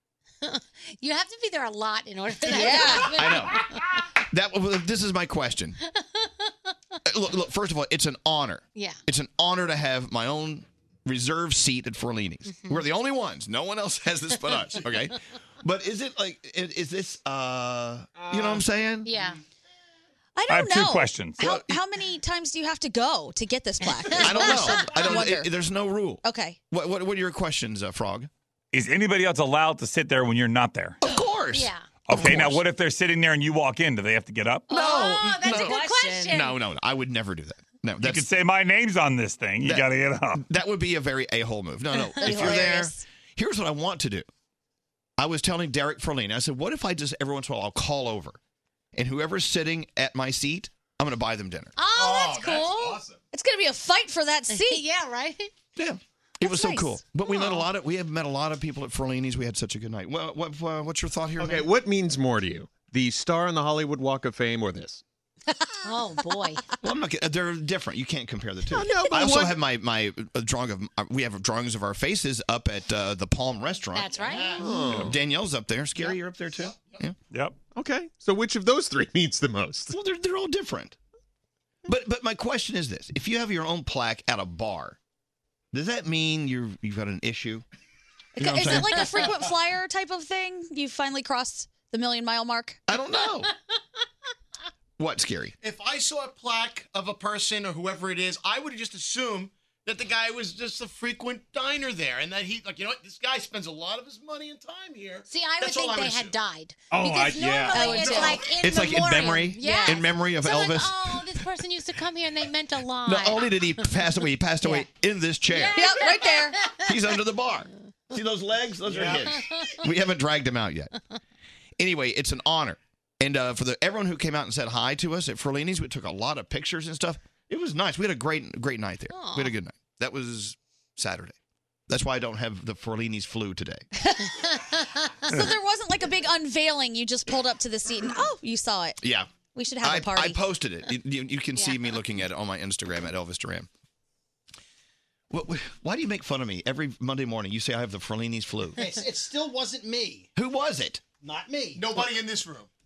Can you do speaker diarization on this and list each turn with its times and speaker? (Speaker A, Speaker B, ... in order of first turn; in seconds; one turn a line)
Speaker A: 0.4-3.8
Speaker B: 2.5-3.2
Speaker C: 3.1-3.6
Speaker C: 4.3-5.8
Speaker A: 6.0-6.3
Speaker C: 7.0-19.1
Speaker A: 12.5-12.8
Speaker A: 19.1-19.4
Speaker B: 20.4-25.5
Speaker D: 20.5-21.5
Speaker C: 21.4-21.8
Speaker A: 23.9-25.3
Speaker C: 24.2-28.3
Speaker B: 26.2-26.6
Speaker D: 28.7-31.0
Speaker C: 31.0-32.6
Speaker A: 31.5-31.9
Speaker D: 32.1-34.7
Speaker A: 34.7-36.6
Speaker C: 34.7-38.3
Speaker B: 34.7-36.5
Speaker D: 38.0-40.4
Speaker C: 39.6-44.3
Speaker A: 42.2-42.6
Speaker B: 42.2-43.0
Speaker C: 45.2-48.4
Speaker C: 48.9-51.8
Speaker A: 51.8-53.0
Speaker E: 52.0-53.2
Speaker B: 53.3-54.8
Speaker A: 54.5-55.5
Speaker C: 55.8-61.7
Speaker B: 56.4-57.0
Speaker E: 61.4-65.0
Speaker A: 65.8-66.6
Speaker C: 66.8-77.1
Speaker E: 68.7-69.6
Speaker A: 73.9-74.7
Speaker F: 74.3-75.0
Speaker E: 74.6-75.2
Speaker D: 77.3-77.6
Speaker E: 77.7-79.9
Speaker C: 79.9-81.0
Speaker C: 81.8-85.0
Speaker C: 85.7-87.6
Speaker B: 88.3-92.8
Speaker C: 88.4-89.3
Speaker C: 92.9-93.5
Speaker C: 95.0-95.5
Speaker F: 95.6-106.3
Speaker A: 105.3-113.9
Speaker E: 106.9-107.7
Speaker F: 107.1-107.6
Speaker B: 107.7-108.4
Speaker C: 108.6-111.2
Speaker B: 109.6-110.0
Speaker C: 113.0-116.0
Speaker B: 114.6-114.9
Speaker A: 115.5-116.9
Speaker B: 115.7-116.6
Speaker C: 116.8-120.9
Speaker A: 119.1-119.7
Speaker C: 121.8-131.3
Speaker A: 129.1-129.5
Speaker C: 131.9-133.8
Speaker A: 134.3-135.4
Speaker B: 135.3-139.0
Speaker C: 139.0-139.3
Speaker B: 139.5-140.4
Speaker C: 139.8-143.7
Speaker A: 141.6-141.9
Speaker C: 145.3-148.8
Speaker G: 148.8-150.3
Speaker C: 150.3-151.0
Speaker G: 151.2-152.1
Speaker F: 151.7-152.7